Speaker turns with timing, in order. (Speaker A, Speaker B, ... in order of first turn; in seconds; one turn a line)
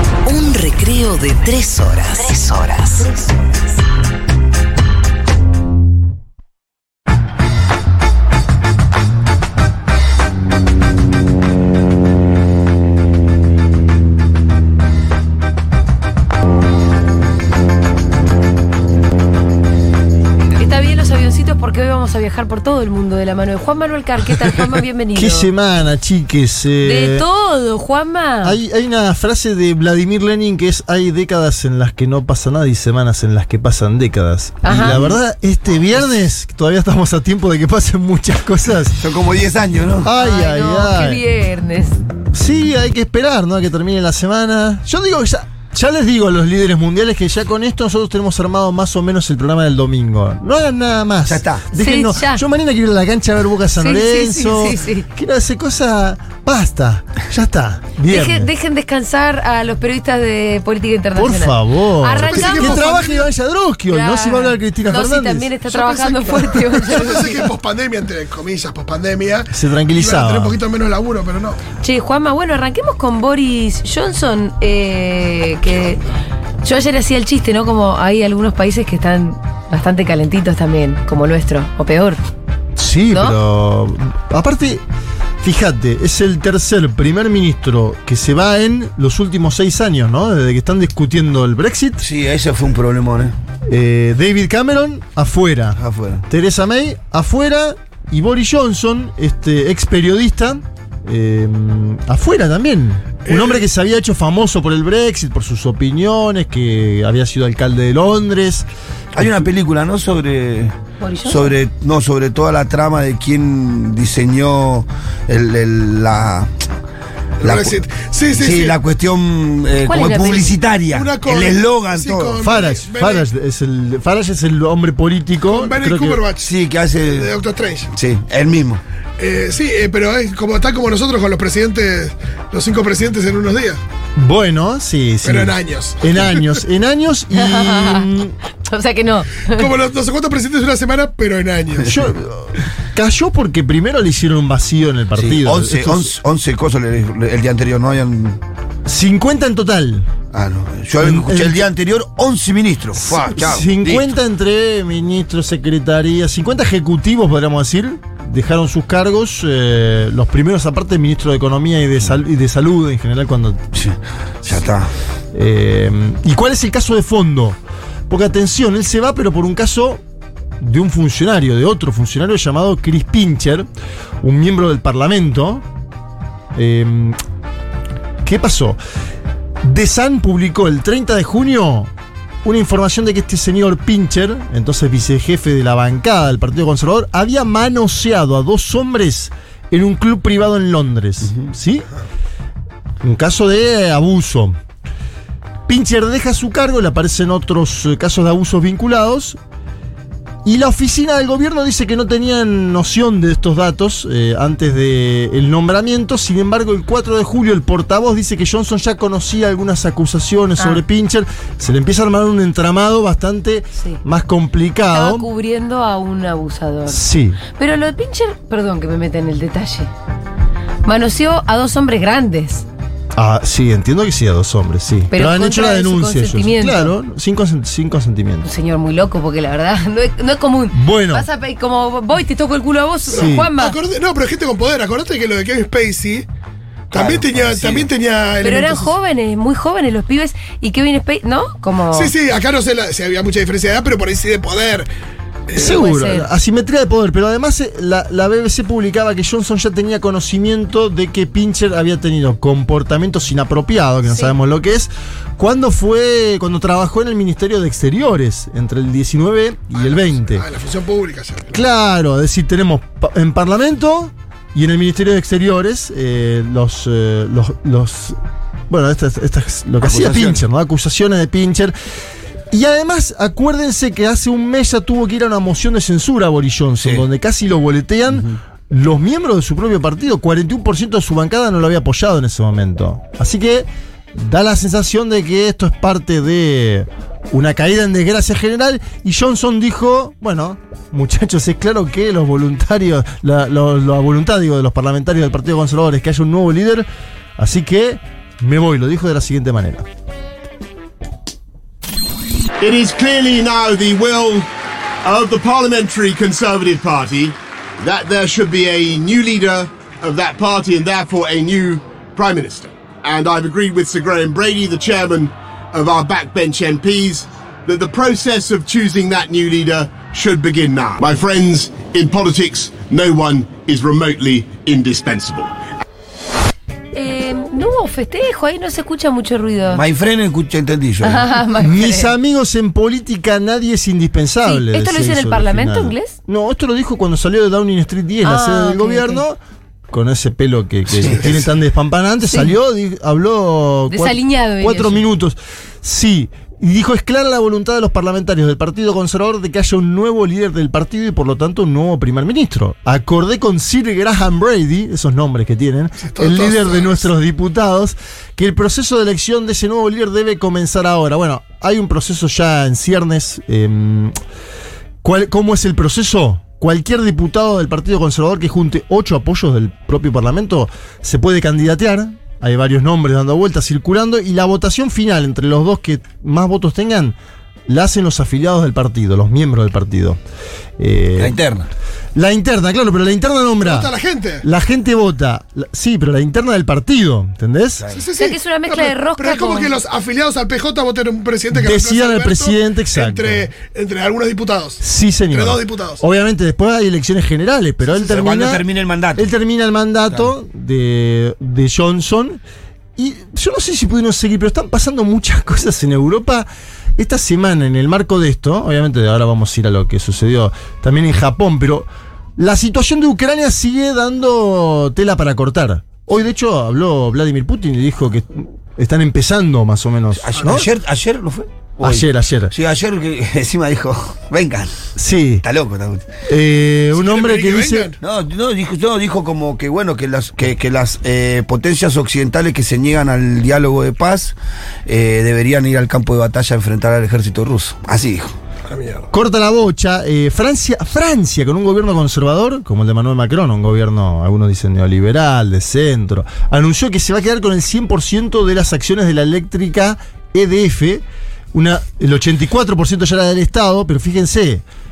Speaker A: 0.2-3.3
Speaker B: 20.5-25.5
Speaker C: 25.1-27.2
Speaker B: 26.8-28.6
Speaker C: 28.4-39.0
Speaker B: 34.6-35.0
Speaker D: 34.7-35.2
Speaker D: 39.0-40.1
Speaker C: 40.0-41.2
Speaker B: 40.1-42.0
Speaker C: 42.3-58.5
Speaker D: 51.3-51.6
Speaker B: 51.7-52.4
Speaker B: 53.8-55.1
Speaker B: 58.1-63.0
Speaker C: 61.1-65.5
Speaker E: 62.2-63.3
Speaker B: 63.9-67.5
Speaker E: 65.7-71.6
Speaker C: 69.5-70.6
Speaker B: 71.8-76.0
Speaker B: 76.6-82.2
Speaker C: 82.8-84.8
Speaker C: 85.4-92.0
Speaker D: 92.0-93.3
Speaker C: 93.7-108.7
Speaker D: 95.8-96.3
Speaker E: 103.3-103.7
Speaker D: 109.2-116.5
Speaker B: 111.0-111.5
Speaker E: 117.4-118.8
Speaker D: 117.4-117.8
Speaker D: 118.3-122.4
Speaker B: 119.8-120.5
Speaker E: 120.9-123.3
Speaker C: 122.4-126.2
Speaker E: 125.4-126.5
Speaker D: 126.4-127.3
Speaker E: 127.1-127.9
Speaker D: 127.9-128.8
Speaker E: 129.2-133.8
Speaker C: 134.2-138.3
Speaker E: 135.2-136.6
Speaker B: 137.3-138.1
Speaker B: 138.7-139.7
Speaker E: 139.5-142.0
Speaker C: 141.8-146.1
Speaker D: 145.2-148.4
Speaker C: 148.9-150.1
Speaker D: 150.3-154.1
Speaker C: 151.0-151.7
Speaker C: 153.0-163.6
Speaker D: 163.8-164.9
Speaker C: 165.3-170.0
Speaker C: 170.6-173.7
Speaker C: 174.2-175.7
Speaker C: 176.5-177.2
Speaker C: 178.2-178.8
Speaker C: 179.6-181.9
Speaker C: 182.4-191.9
Speaker C: 193.0-194.6
Speaker C: 195.7-199.4
Speaker C: 200.4-215.3
Speaker B: 214.9-219.9
Speaker C: 216.9-217.4
Speaker B: 220.8-222.7
Speaker C: 223.2-228.5
Speaker B: 225.1-226.9
Speaker B: 228.4-233.8
Speaker C: 230.7-231.3
Speaker E: 233.1-236.3
Speaker C: 233.1-233.5
Speaker E: 236.9-238.9
Speaker D: 236.9-237.9
Speaker B: 238.4-242.1
Speaker E: 241.9-244.9
Speaker E: 245.5-245.8
Speaker C: 245.6-260.4
Speaker B: 245.6-246.3
Speaker B: 254.1-254.3
Speaker E: 259.7-261.6
Speaker C: 261.5-268.2
Speaker C: 268.7-271.8
Speaker D: 269.8-270.4
Speaker C: 272.5-299.9
Speaker F: 302.6-304.5
Speaker F: 305.0-325.6
Speaker B: 326.9-329.8
Speaker D: 329.7-331.3
Speaker B: 331.0-332.1
Speaker C: 331.6-339.4
Speaker B: 334.4-336.1
Speaker B: 338.2-339.2
Speaker C: 339.9-364.1
Speaker D: 340.9-341.5
Speaker B: 342.3-342.5
Speaker B: 343.9-345.0
Speaker E: 356.0-357.1
Speaker C: 365.0-377.2
Speaker C: 377.7-380.2
Speaker C: 380.8-381.4
Speaker D: 381.2-381.7
Speaker C: 382.1-383.9
Speaker E: 383.6-384.5
Speaker C: 384.4-387.9
Speaker E: 387.9-396.0
Speaker B: 388.2-389.7
Speaker C: 391.5-393.5
Speaker C: 394.8-398.6
Speaker D: 397.9-399.3
Speaker C: 399.2-402.4
Speaker C: 403.0-420.7
Speaker D: 420.2-424.7
Speaker C: 421.8-422.5
Speaker C: 425.0-425.4
Speaker D: 425.4-426.1
Speaker C: 426.3-427.9
Speaker E: 426.9-428.0
Speaker D: 428.0-434.4
Speaker D: 434.9-438.4
Speaker E: 438.7-439.1
Speaker C: 439.1-454.6